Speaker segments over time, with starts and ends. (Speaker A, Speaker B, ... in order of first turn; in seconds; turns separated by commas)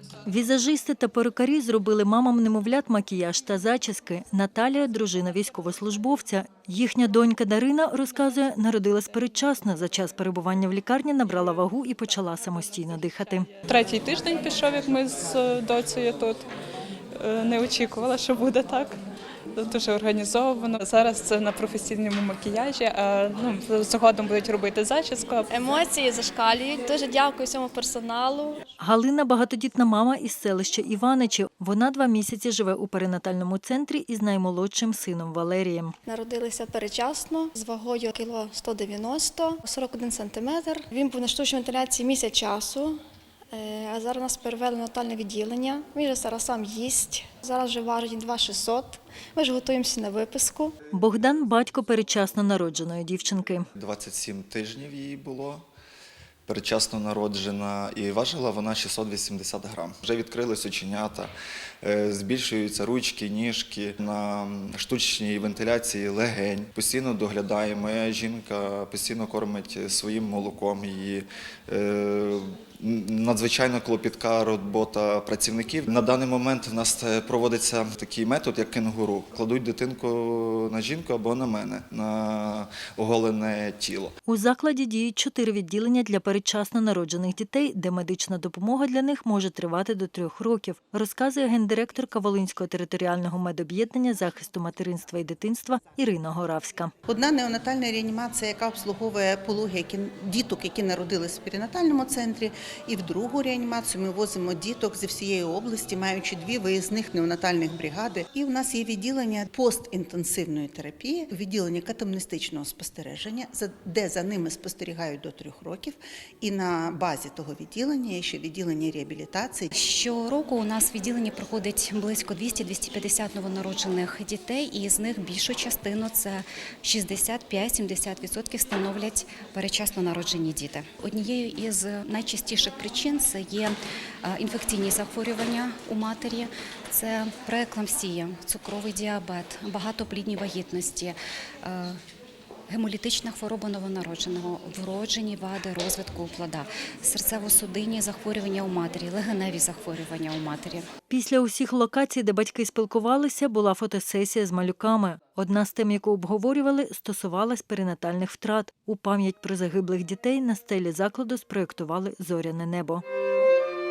Speaker A: 0.2-13.5, Speaker B: 13.7-16.4, Speaker B: 17.1-19.0, Speaker B: 19.5-25.5, Speaker C: 25.5-28.6, Speaker A: 28.8-35.9, Speaker C: 36.0-43.0, Speaker C: 43.5-50.7, Speaker A: 50.9-53.7, Speaker D: 53.7-55.6, Speaker D: 56.5-84.1, Speaker A: 84.2-96.9, Speaker E: 97.1-119.7, Speaker F: 119.7-142.0, Speaker F: 142.7-150.8, Speaker A: 151.1-163.0